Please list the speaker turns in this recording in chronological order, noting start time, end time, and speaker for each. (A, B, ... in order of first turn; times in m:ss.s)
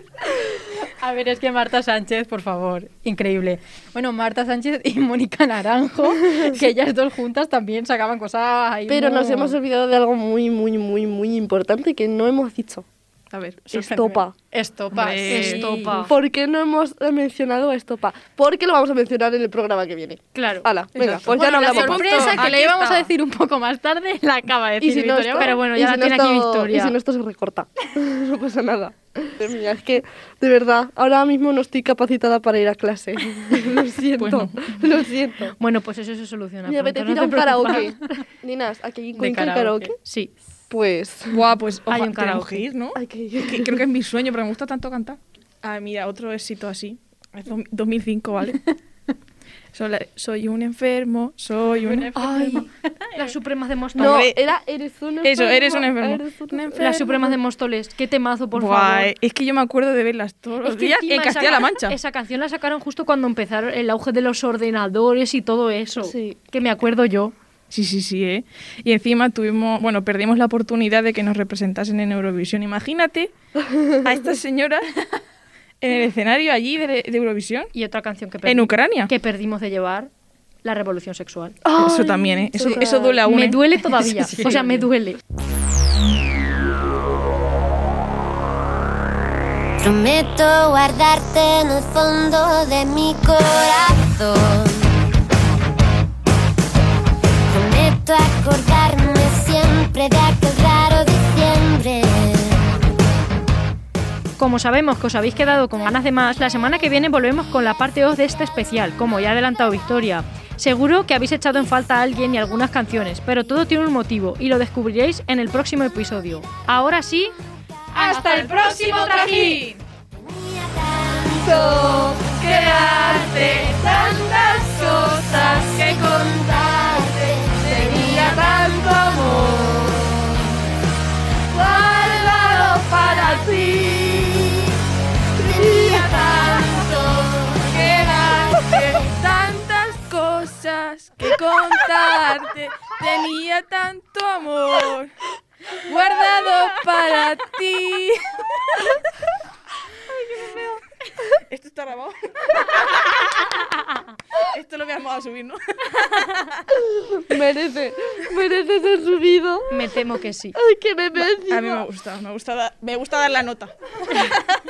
0:01.0-0:09.5 A
0:08.9-0:12.9 B
0:13.3-0:13.6 C
0:13.7-0:14.3 B
0:13.8-0:16.0 A
0:14.9-0:15.8 C
0:15.3-0:16.1 D
0:16.0-0:22.4 B
0:20.3-0:22.4 D
0:21.2-0:23.1 C
0:21.6-0:25.5 A
0:24.8-0:35.5 B
0:25.4-0:26.9 D
0:34.2-0:34.8 C
0:35.6-0:38.2 D
0:36.6-0:40.0 B
0:39.2-0:40.3 D
0:40.7-0:41.4 B
0:41.3-0:48.6 C
0:41.9-0:42.7 D
0:43.0-0:43.8 B
0:49.7-0:52.7 C
0:51.8-0:54.3 D
0:54.0-0:54.3 C
0:54.0-0:57.4 B
0:55.2-0:56.8 C
0:56.8-0:59.1 D
0:58.5-1:02.0 C
1:00.6-1:07.4 D
1:06.0-1:06.4 B
1:07.7-1:13.3 C
1:14.0-1:14.8 C
1:15.8-1:17.7 C
1:17.7-1:20.1 D
1:18.4-1:19.1 C
1:20.6-1:21.6 D
1:21.6-1:23.2 B
1:21.8-1:24.2 C
1:22.6-1:25.2 D
1:24.4-1:24.8 A
1:29.8-1:34.9 E
1:37.5-1:42.6 E
1:44.4-1:57.3 D
1:58.0-1:59.8 C
1:58.0-1:59.6 D
2:00.2-2:10.2 E
2:01.4-2:02.2 B
2:02.4-2:06.4 C
2:07.0-2:09.6 C
2:08.1-2:08.7 B
2:11.9-2:13.4 E
2:11.9-2:14.2 C
2:15.4-2:16.6 B
2:15.5-2:18.0 E
2:15.6-2:16.7 C
2:17.7-2:25.1 C
2:25.9-2:28.8 C
2:31.5-2:33.0 C
2:34.4-2:36.6 C
2:37.0-2:39.8 B
2:39.7-2:40.6 D
2:40.6-2:41.8 B
2:41.5-2:44.4 C